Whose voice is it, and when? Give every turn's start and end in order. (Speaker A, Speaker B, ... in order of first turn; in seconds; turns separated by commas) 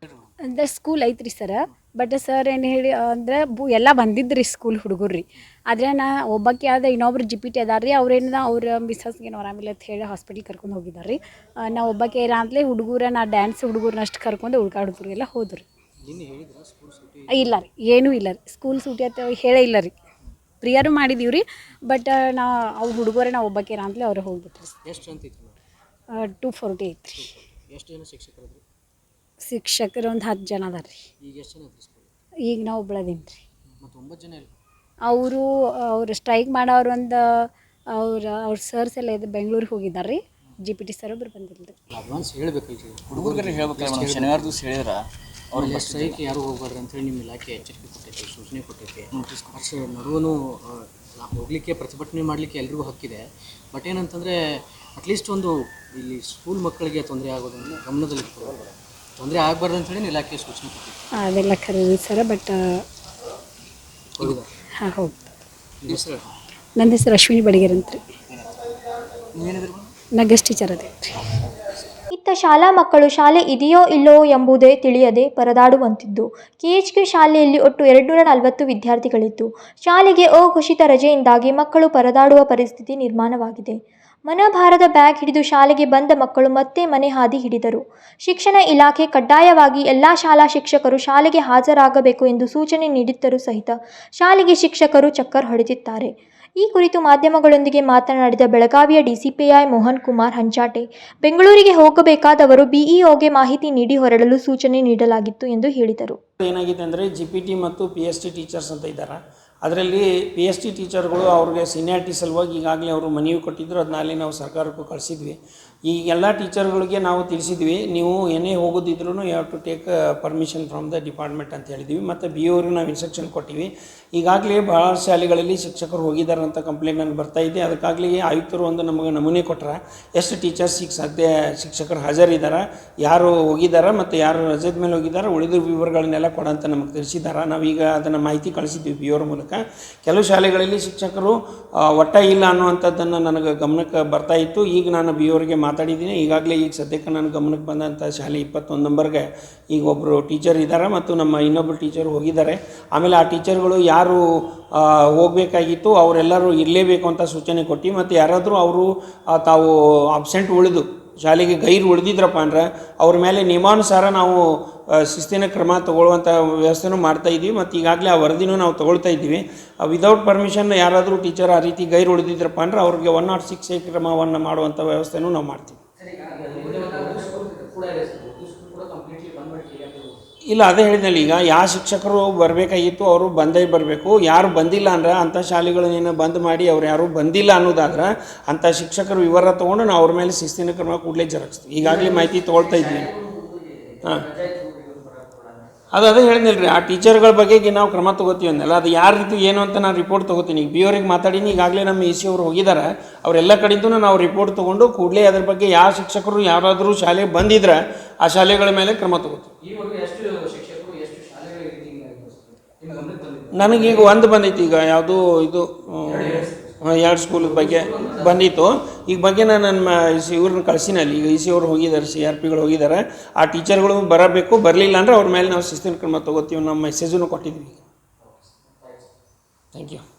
Speaker A: 0.4-15.7, Speaker B: 16.0-17.6, Speaker A: 17.3-19.9, Speaker A: 20.6-24.8, Speaker B: 24.8-25.6, Speaker A: 26.1-27.3, Speaker B: 27.2-28.6, Speaker A: 29.4-31.1, Speaker B: 31.2-32.1, Speaker A: 32.5-33.4, Speaker B: 33.8-34.5, Speaker A: 35.0-41.8, Speaker B: 41.9-44.6, Speaker C: 43.4-45.0, Speaker B: 45.5-61.0, Speaker C: 45.5-46.1, Speaker C: 49.2-49.5, Speaker A: 61.2-62.8, Speaker B: 64.2-64.5, Speaker A: 64.8-65.2, Speaker B: 65.8-66.3, Speaker A: 66.8-68.0, Speaker C: 69.3-69.9, Speaker A: 70.2-71.2, Speaker D: 72.1-106.2, Speaker E: 106.4-175.8, Speaker B: 176.0-180.2, Speaker C: 176.6-177.1, Speaker E: 180.5-193.1, Speaker B: 191.8-195.7, Speaker E: 195.9-209.5, Speaker B: 209.6-214.2, Speaker E: 213.5-227.8, Speaker B: 216.1-216.8, Speaker B: 217.4-218.5, Speaker B: 228.2-229.1, Speaker E: 229.7-230.0